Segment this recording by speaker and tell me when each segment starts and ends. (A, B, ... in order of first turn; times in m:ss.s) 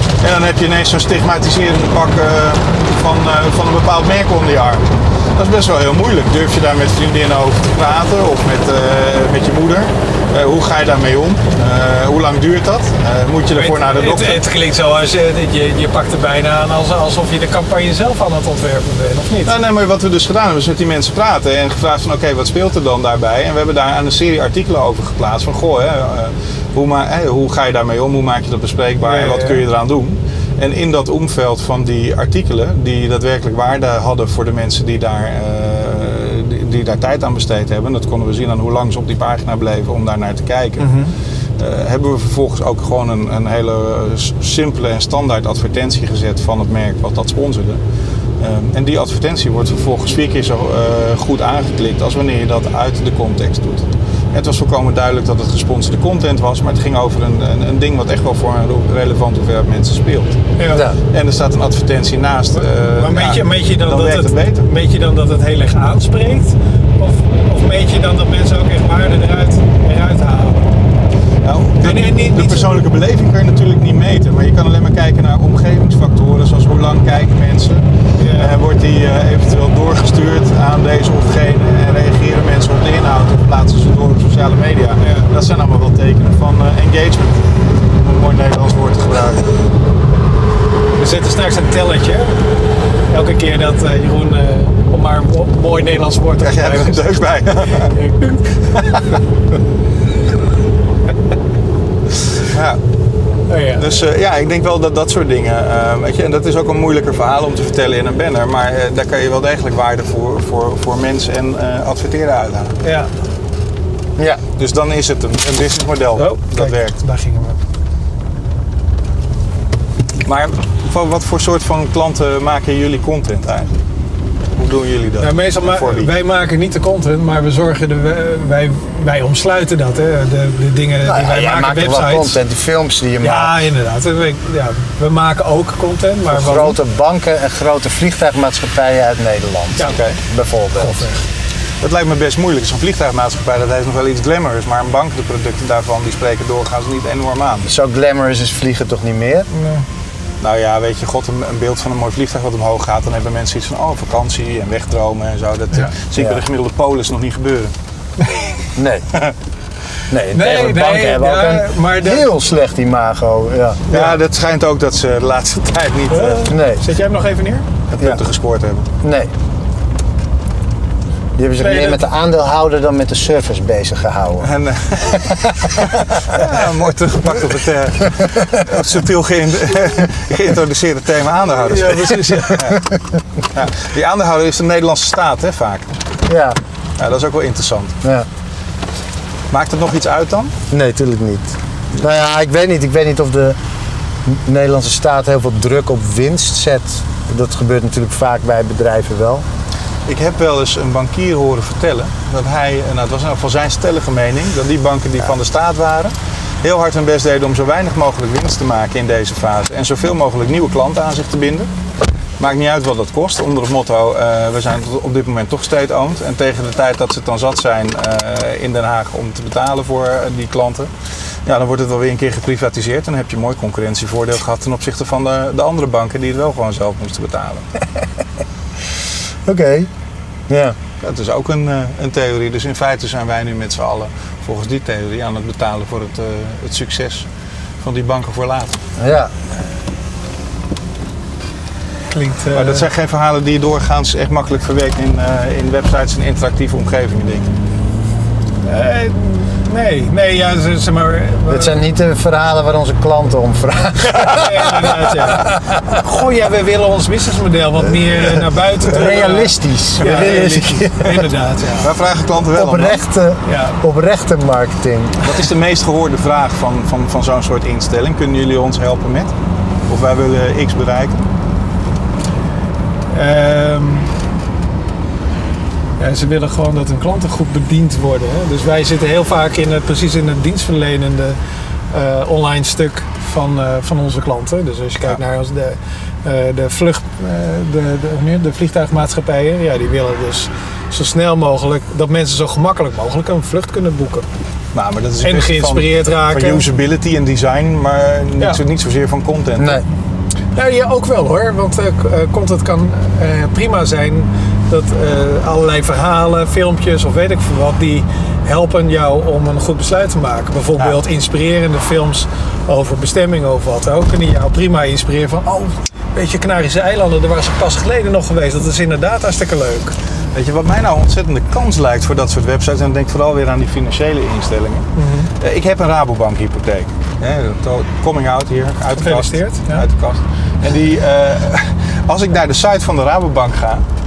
0:00.2-0:14.4 A
0:13.6-0:19.5 B
0:19.4-0:41.0 A
0:29.0-0:29.6 B
0:40.8-0:41.1 B
0:41.6-0:47.8 A
0:48.4-1:04.7 A
1:00.6-1:00.8 B
1:00.7-1:01.0 C
1:02.5-1:10.8 B
1:11.4-1:29.5 A
1:11.8-1:12.8 B
1:18.2-1:18.5 B
1:25.0-1:25.3 B
1:31.0-1:32.4 B
1:33.1-1:37.0 B
1:36.4-1:38.0 A
1:37.9-1:39.1 B
1:42.4-1:42.8 A
1:43.5-1:43.9 B
1:43.8-1:52.8 A
1:52.8-1:53.1 B
1:54.6-1:57.0 A
1:56.2-1:57.6 B
2:00.2-2:03.7 A
2:04.6-2:06.1 A
2:05.2-2:12.4 B
2:11.0-2:13.6 C
2:13.2-2:16.8 B
2:16.3-2:21.1 C
2:19.9-2:20.2 A
2:20.8-2:21.2 B
2:21.8-2:27.7 A
2:27.7-2:29.5 C
2:29.5-2:29.8 B
2:30.4-2:37.7 A
2:38.2-2:38.5 B
2:38.8-2:39.1 C
2:40.1-2:43.8 C
2:40.3-2:42.3 B
2:43.9-2:46.5 A
2:43.9-2:44.2 B
2:46.1-2:47.7 B
2:46.5-2:46.8 C
2:47.9-2:48.9 A
2:49.0-2:49.3 C
2:51.4-2:54.5 C
2:51.6-2:52.1 B
2:54.4-3:02.8 A
2:55.0-2:55.9 C
3:01.7-3:02.7 B
3:02.3-3:02.9 C
3:03.5-3:05.9 A
3:06.3-3:06.6 C
3:07.0-3:08.0 A
3:09.5-3:10.5 A
3:10.7-3:13.6 C
3:14.2-3:19.4 C
3:20.1-3:31.7 A
3:32.4-3:40.9 A
3:41.5-3:47.7 A
3:49.5-3:49.9 C
3:50.5-3:50.8 C
3:51.0-3:57.3 A
3:57.8-3:58.8 A
3:59.0-3:59.3 C
4:02.1-4:02.9 B
4:02.5-4:07.5 A
4:08.6-4:11.8 B
4:11.5-4:16.0 C
4:14.1-4:21.9 B
4:18.8-4:21.3 C
4:21.8-4:23.0 A
4:22.5-4:25.4 C
4:23.4-4:23.8 B
4:25.2-4:29.3 A
4:29.9-4:31.2 A
4:33.1-4:34.1 B
4:36.0-4:41.4 B
4:41.9-4:54.3 B
4:54.7-4:59.8 A
4:55.2-4:56.6 B
4:59.6-4:59.8 C
5:00.6-5:20.0 B
5:20.3-5:33.8 A
5:25.0-5:25.3 B
5:29.0-5:29.8 B